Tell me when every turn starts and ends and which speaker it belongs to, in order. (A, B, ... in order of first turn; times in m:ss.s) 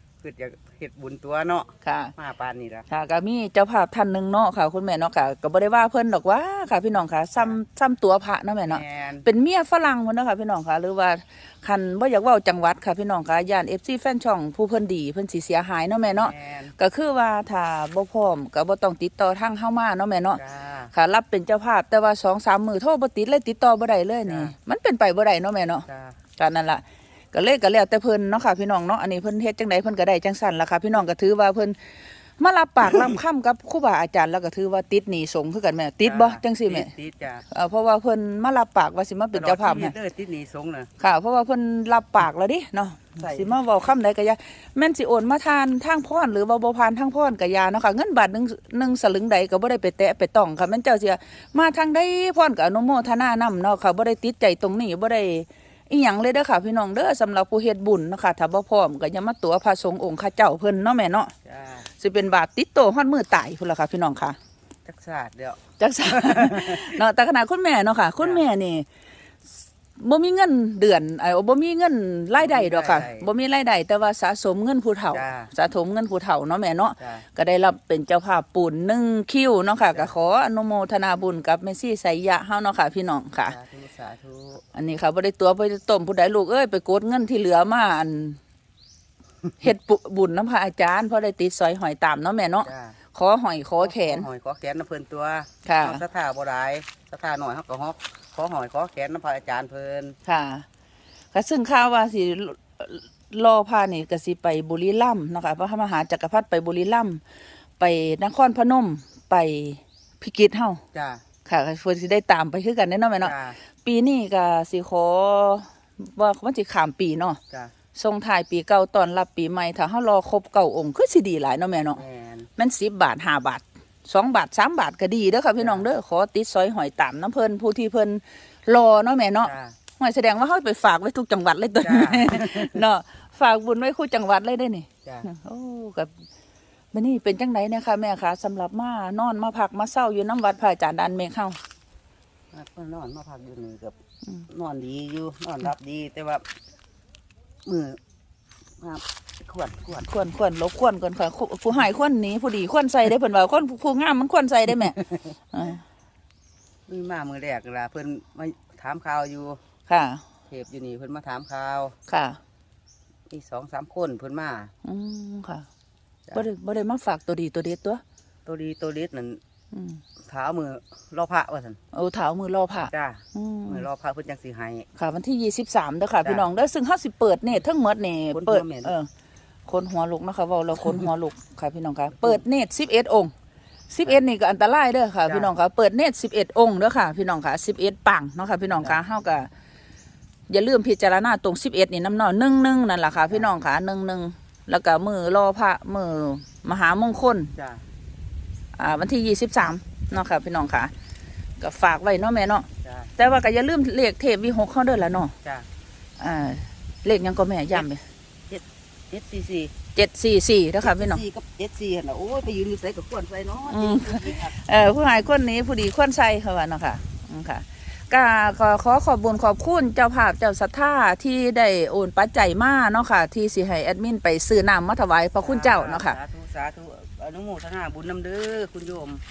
0:00.2-0:02.9 A
0:01.8-0:02.1 B
0:02.9-0:20.4 B
0:08.7-0:09.3 A
0:16.1-0:16.7 A
0:20.4-0:20.9 A
0:20.9-0:25.8 B
0:24.2-0:24.5 A
0:25.8-0:26.2 A
0:26.4-0:31.8 B
0:32.4-0:36.9 B
0:36.0-0:37.4 A
0:37.5-0:39.9 B
0:39.3-0:40.9 A
0:41.0-1:01.3 B
0:43.2-0:43.5 A
1:01.4-1:01.9 A
1:02.0-1:04.4 B
1:04.8-1:05.6 A
1:05.8-1:08.8 B
1:06.1-1:06.9 A
1:10.0-1:23.6 B
1:12.4-1:13.3 A
1:15.1-1:15.5 A
1:17.0-1:17.2 A
1:23.4-1:24.6 A
1:24.7-1:28.4 B
1:29.6-1:34.3 B
1:32.6-1:33.0 A
1:33.8-1:40.2 A
1:35.6-1:36.0 B
1:40.2-1:40.6 B
1:41.3-1:47.2 B
1:47.8-1:50.8 B
1:50.9-1:51.2 A
1:51.4-1:57.4 B
1:53.2-1:53.6 A
1:57.9-2:02.0 B
2:02.0-2:02.5 A
2:02.6-2:16.2 B
2:05.6-2:05.9 A
2:09.4-2:09.8 A
2:11.8-2:12.8 A
2:16.9-2:21.6 B
2:22.5-2:24.0 A
2:24.5-2:26.4 A
2:27.6-2:28.0 A
2:28.8-2:30.1 A
2:30.0-2:35.0 B
2:35.5-2:35.8 B
2:36.9-2:39.6 A
2:39.9-2:40.2 B
2:40.5-2:42.0 A
2:42.1-2:42.4 B
2:43.3-2:44.7 A
2:44.8-2:45.7 B
2:46.3-2:48.0 B
2:48.4-2:49.4 A
2:49.7-2:50.0 B
2:50.2-2:51.8 A
2:51.9-2:53.8 B
2:52.9-2:54.9 A
2:55.0-2:59.1 B
2:58.3-2:58.9 A
2:59.6-3:03.3 B
3:03.9-3:09.5 B
3:05.2-3:05.5 A
3:10.5-3:17.5 B
3:17.5-3:17.8 A
3:18.8-3:20.9 B
3:21.6-3:25.3 B
3:22.8-3:23.1 A
3:26.2-3:28.0 B
3:28.5-3:29.7 A
3:29.9-3:31.2 B
3:30.8-3:34.6 A
3:33.7-3:46.2 B
3:45.4-3:49.2 A